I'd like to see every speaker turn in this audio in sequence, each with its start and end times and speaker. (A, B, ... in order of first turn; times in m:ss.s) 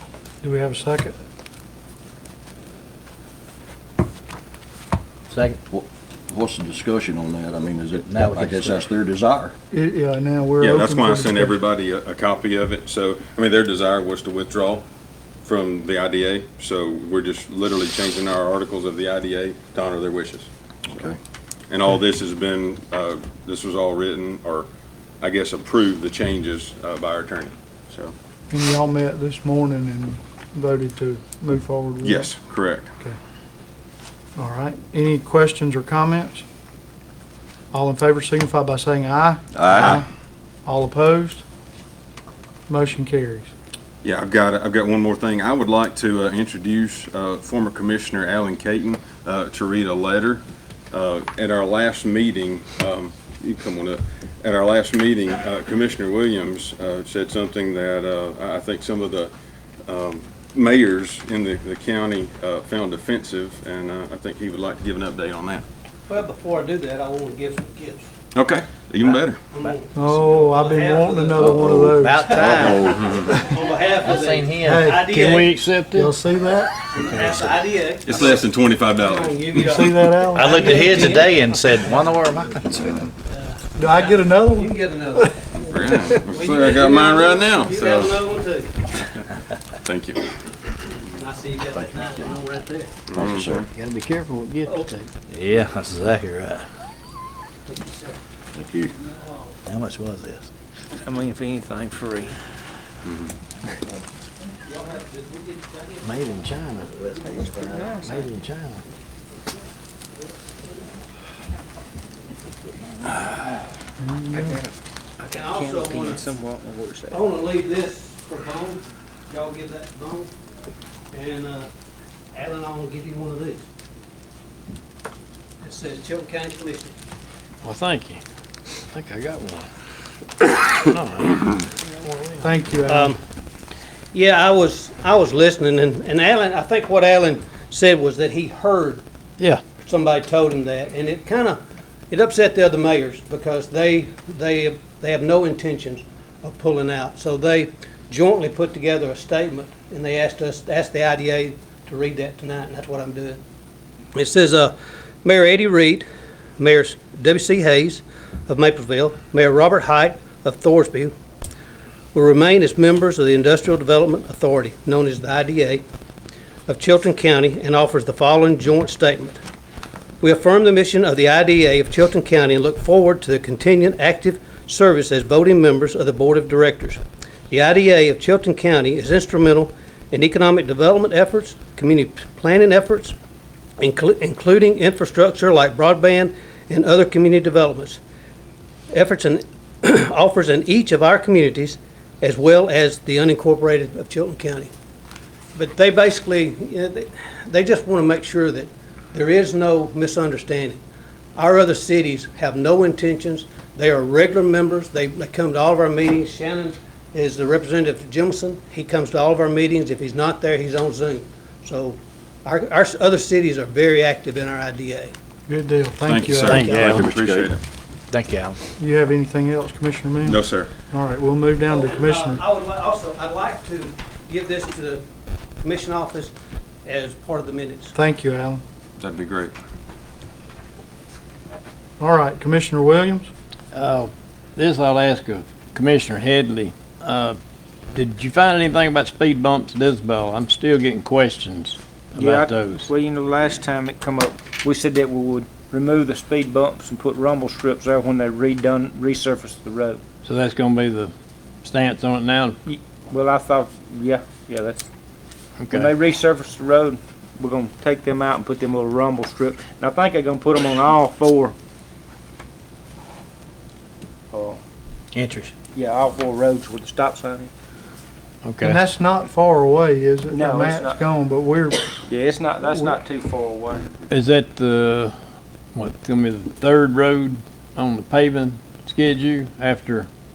0:00.4-0:01.2 A
0:05.3-0:05.6 B
0:05.7-0:09.5 C
0:08.0-0:08.8 B
0:09.7-0:11.6 A
0:10.6-0:14.9 D
0:15.4-0:20.5 D
0:20.9-0:21.2 C
0:21.7-0:24.7 D
0:25.2-0:28.1 D
0:28.5-0:32.4 A
0:32.0-0:32.9 D
0:34.4-0:36.4 A
0:37.7-0:40.0 A
0:39.6-0:40.0 C
0:40.6-0:41.4 A
0:42.7-0:43.5 A
0:44.0-0:59.3 D
0:59.9-1:05.6 D
1:06.1-1:08.1 E
1:08.3-1:09.4 D
1:09.0-1:15.6 E
1:09.9-1:12.2 A
1:11.4-1:13.2 B
1:12.4-1:13.2 C
1:14.0-1:15.2 B
1:14.6-1:15.0 A
1:15.1-1:16.2 F
1:16.0-1:16.8 A
1:16.8-1:22.0 E
1:18.0-1:19.4 D
1:19.5-1:21.2 A
1:20.3-1:23.1 B
1:23.2-1:28.7 E
1:23.7-1:25.3 A
1:25.7-1:28.2 D
1:29.8-1:30.2 D
1:31.1-1:32.9 E
1:31.7-1:32.3 C
1:33.1-1:33.7 D
1:33.2-1:33.7 C
1:33.8-1:34.9 F
1:34.7-1:35.0 E
1:35.3-1:36.7 B
1:37.7-1:38.2 E
1:38.6-1:38.9 C
1:39.1-1:39.5 E
1:39.7-1:40.5 B
1:41.0-1:42.4 G
1:43.0-1:43.3 D
1:44.7-1:46.3 E
1:46.0-1:48.8 B
1:47.0-1:47.4 E
1:47.4-1:48.3 G
1:54.0-1:54.6 A
1:54.3-1:54.7 G
1:55.2-1:57.2 G
1:55.3-1:56.3 E
1:57.1-2:00.3 E
2:01.1-2:01.7 E
2:02.3-2:03.6 E
2:05.6-2:06.9 E
2:07.6-2:08.2 F
2:08.9-2:09.7 F
2:10.5-2:11.6 F
2:12.4-2:13.2 A
2:12.9-2:13.2 E
2:14.1-2:19.0 E
2:19.8-2:33.4 E
2:34.2-2:36.1 E
2:36.6-2:41.1 E
2:42.1-2:45.8 E
2:46.7-2:49.4 E
2:50.2-3:03.2 E
3:03.8-3:08.0 E
3:08.9-3:14.7 E
3:15.6-3:20.8 E
3:21.4-3:35.1 E
3:35.5-3:36.6 A
3:36.1-3:37.6 D
3:36.4-3:37.0 F
3:36.6-3:37.5 C
3:36.6-3:36.9 E
3:38.1-3:38.6 B
3:38.8-3:42.4 A
3:40.2-3:40.7 D
3:41.7-3:45.0 E
3:45.6-3:46.3 E
3:46.8-3:47.9 E
3:48.0-3:48.6 A
3:49.0-3:49.5 D
3:52.0-3:53.3 A
3:53.7-3:57.4 F
3:57.9-4:02.9 F
4:02.2-4:10.0 G
4:10.2-4:12.6 F
4:12.7-4:14.9 G
4:15.6-4:16.0 F
4:15.7-4:21.6 G
4:24.3-4:24.6 G
4:25.1-4:25.5 B
4:25.8-4:27.5 G
4:28.4-4:28.8 F
4:28.6-4:32.1 A
4:30.3-4:31.0 G
4:32.1-4:33.9 G
4:32.6-4:33.0 A
4:34.1-4:35.1 F
4:35.8-4:40.1 F